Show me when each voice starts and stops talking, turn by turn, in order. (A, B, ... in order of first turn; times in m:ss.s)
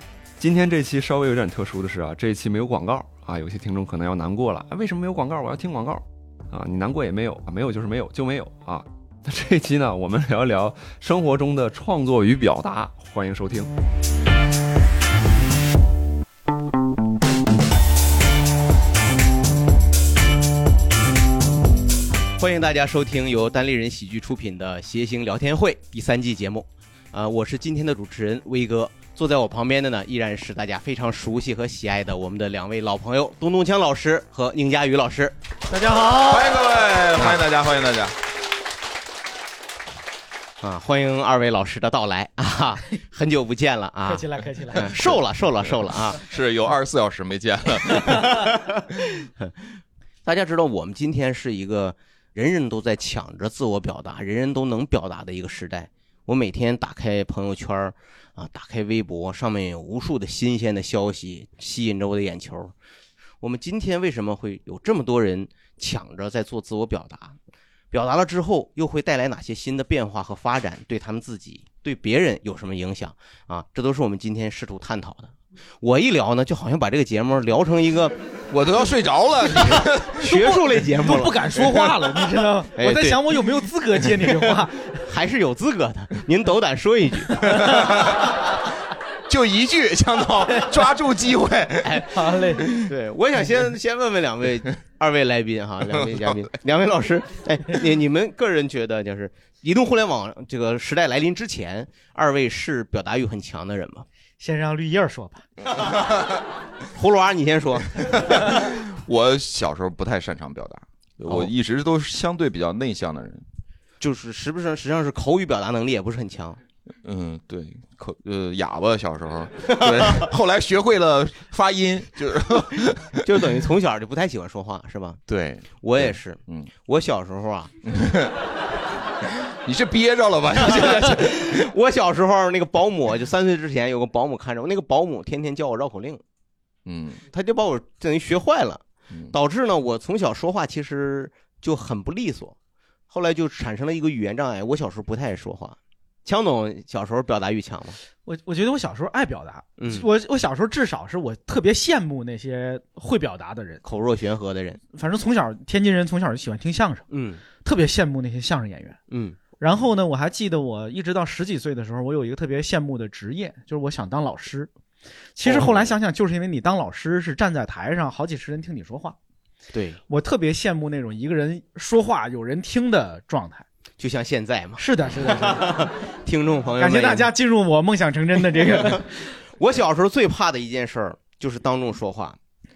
0:00.4-0:13.7 A
0:22.4-0:35.4 B
0:35.7-0:36.6 C
0:36.1-0:38.1 D
0:40.6-0:46.2 B
0:44.0-0:45.0 C
0:46.1-0:48.3 D
0:48.5-0:49.5 B
0:50.2-1:02.7 B
1:03.4-1:07.4 B
1:07.9-1:18.2 B
1:18.5-1:20.2 D
1:19.5-1:21.4 B
1:20.2-1:25.0 C
1:22.8-1:23.2 B
1:25.1-1:27.4 B
1:27.5-1:28.3 D
1:29.3-1:32.0 D
1:31.8-1:32.1 B
1:32.2-1:32.7 C
1:32.8-1:44.1 B
1:44.4-1:45.4 C
1:47.0-1:48.2 B
1:48.1-1:53.4 D
1:54.0-1:56.6 B
1:57.0-2:03.2 D
1:59.7-2:00.3 B
2:03.2-2:05.2 B
2:05.3-2:06.7 D
2:05.8-2:07.7 B
2:07.9-2:08.3 D
2:09.5-2:11.5 D
2:10.6-2:16.2 B
2:16.9-2:17.2 D
2:17.3-2:22.6 B
2:23.1-2:28.0 B
2:28.2-2:33.8 C
2:29.8-2:30.1 B
2:33.8-2:34.8 B
2:34.9-2:37.0 C
2:37.1-2:37.4 B
2:37.6-2:39.0 C
2:39.1-2:39.4 B
2:39.6-2:44.7 C
2:45.4-2:49.2 C
2:45.4-2:45.9 B
2:49.7-2:50.0 B
2:50.1-2:53.6 C
2:54.0-2:57.3 B
2:54.8-2:55.9 C
2:56.8-2:59.1 C
2:58.6-2:59.0 B
2:59.6-3:02.4 B